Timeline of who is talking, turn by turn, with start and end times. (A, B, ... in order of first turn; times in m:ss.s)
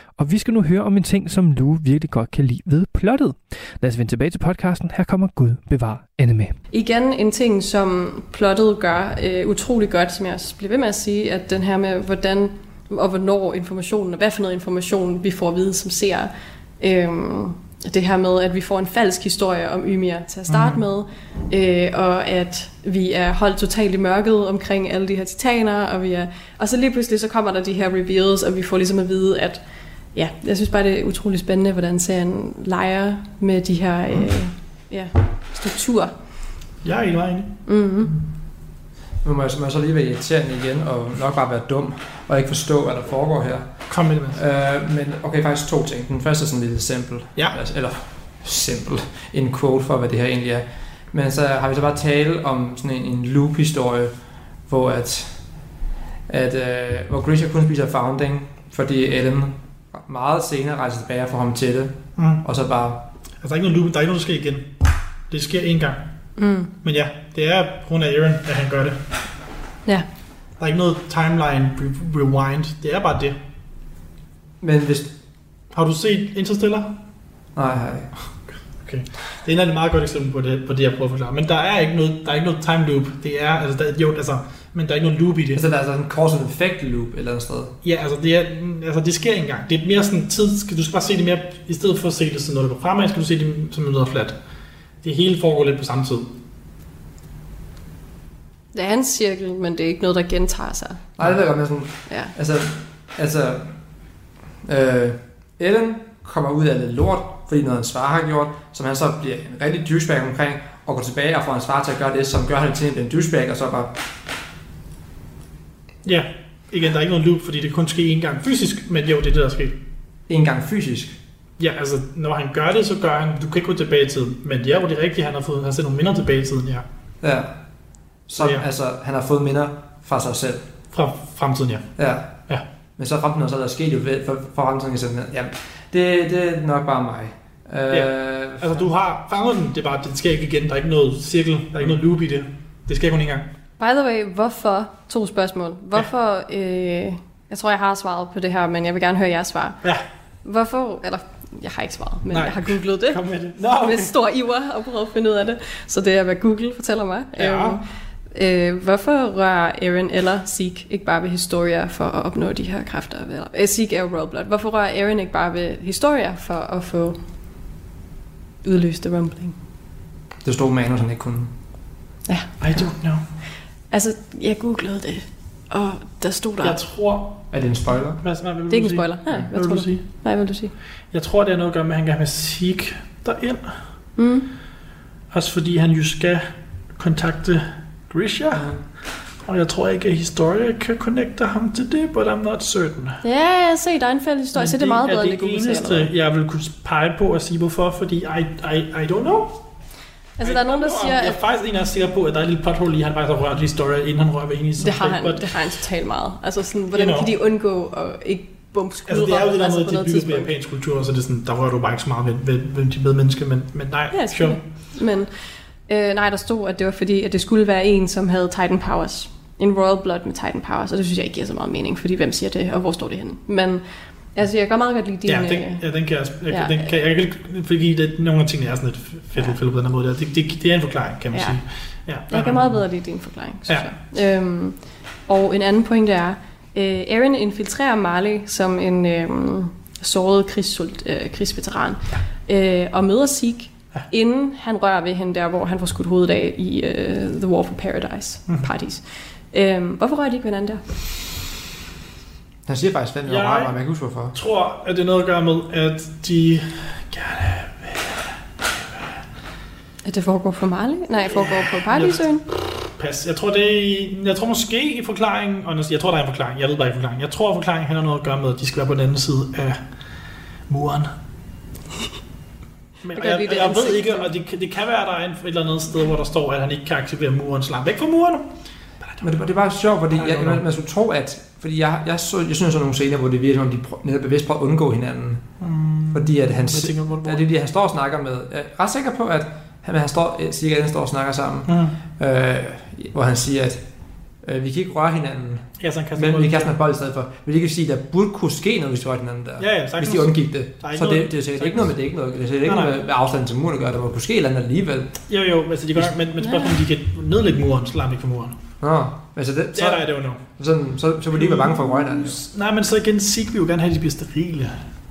0:00.2-0:06.5 A
0:06.7-0:29.6 B
0:20.5-0:20.8 C
0:30.1-0:36.1 B
0:36.8-0:38.1 C
0:37.6-0:38.1 B
0:39.2-0:55.5 D
0:43.9-0:44.4 C
0:56.3-1:03.0 D
1:02.2-1:02.4 C
1:03.4-1:04.8 C
1:05.3-1:06.1 C
1:06.4-1:06.7 B
1:06.8-1:09.0 C
1:10.6-1:13.4 C
1:14.6-1:15.1 D
1:15.7-1:17.0 C
1:17.5-1:18.1 D
1:18.8-1:25.6 C
1:25.5-1:27.7 D
1:27.8-1:34.4 C
1:35.0-1:36.4 C
1:38.7-1:41.0 B
1:41.2-1:43.7 D
1:44.6-1:53.9 D
1:56.0-1:59.8 C
2:00.3-2:01.2 D
2:01.6-2:06.8 C
2:07.2-2:07.5 D
2:08.3-2:10.6 D
2:08.4-2:08.6 C
2:10.9-2:11.9 C
2:12.0-2:12.4 D
2:13.0-2:18.9 D
2:17.9-2:23.5 C
2:23.8-2:29.8 B
2:30.4-2:47.2 B
2:32.3-2:34.1 C
2:37.3-2:37.8 C
2:48.6-2:49.6 B
2:50.4-2:51.5 D
2:52.3-2:52.6 B
2:52.6-2:53.2 C
2:53.9-2:56.8 B
2:56.6-2:57.6 C
2:57.5-2:58.2 D
2:58.2-3:00.0 C
2:58.7-3:00.7 B
3:01.1-3:03.8 C
3:04.2-3:04.5 B
3:05.3-3:13.2 C
3:08.5-3:08.8 D
3:13.2-3:16.1 B
3:14.5-3:19.6 C
3:20.4-3:21.4 B
3:20.4-3:25.5 C
3:24.8-3:30.5 B
3:26.9-3:27.3 C
3:29.1-3:34.6 C
3:34.1-3:35.3 B
3:35.9-3:45.8 B
3:45.2-3:52.8 C
3:46.5-3:46.8 B
3:51.3-3:51.6 B
3:52.3-4:10.8 B
4:12.6-4:14.3 D
4:13.2-4:13.8 C
4:14.3-4:19.1 C
4:20.0-4:22.4 B
4:21.3-4:22.3 C
4:22.8-4:29.8 C
4:30.7-4:31.1 C
4:33.0-4:38.5 C
4:33.1-4:34.3 B
4:39.0-4:39.3 C
4:39.2-4:45.4 D
4:40.1-4:40.6 C
4:45.6-4:47.4 C
4:46.1-4:53.8 D
4:51.7-4:52.0 C
4:54.4-5:05.2 D
4:55.8-4:56.7 C
4:59.6-5:01.9 C
5:02.6-5:03.0 C
5:05.3-5:08.6 C
5:06.4-5:06.7 B
5:08.8-5:12.4 D
5:09.7-5:10.4 C
5:11.3-5:14.9 C